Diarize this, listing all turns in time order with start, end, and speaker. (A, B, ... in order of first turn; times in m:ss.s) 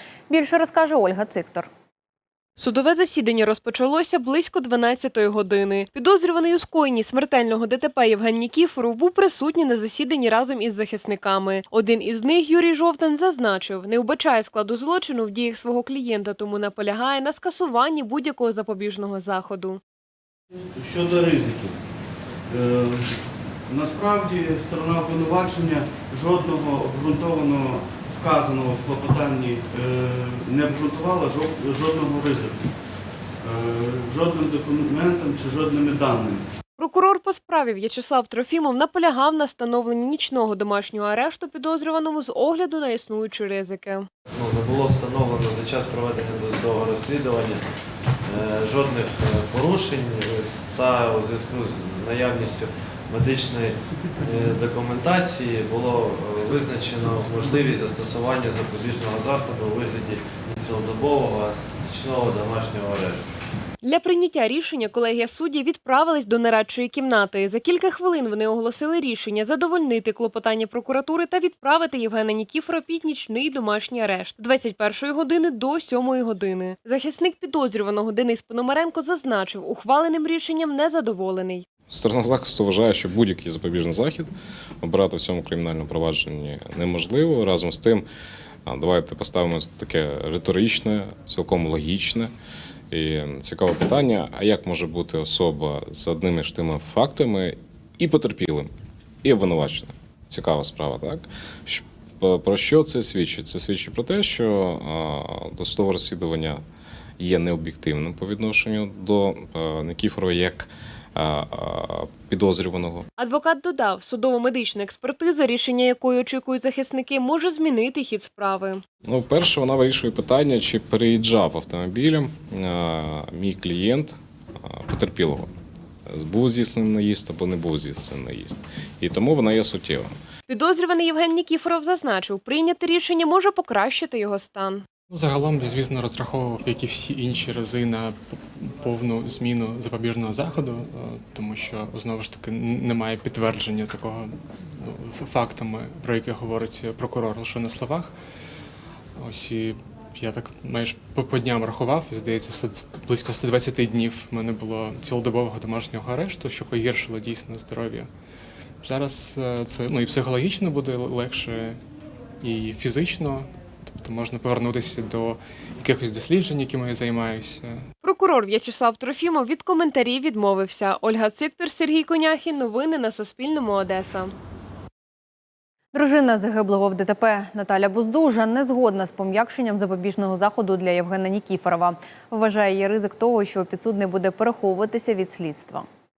0:00.3-0:01.7 A
0:02.6-0:19.8 B
0:20.5-0:21.8 C
0:22.5-0:32.7 C
0:33.4-0:36.4 C
0:36.8-0:44.1 B
0:44.3-0:47.6 D
0:48.2-1:03.3 D
1:03.8-1:21.7 B
1:21.9-1:28.1 E
1:28.7-1:32.3 E
1:32.9-1:38.7 E
1:39.2-1:46.6 E
1:47.2-1:53.1 E
1:53.2-1:58.8 B
1:59.0-2:05.5 E
2:06.1-2:10.1 E
2:10.5-2:14.9 B
2:15.1-2:28.1 F
2:29.2-2:38.1 F
2:38.8-2:41.8 F
2:42.4-2:47.8 F
2:48.0-2:54.3 B
2:55.9-3:05.9 A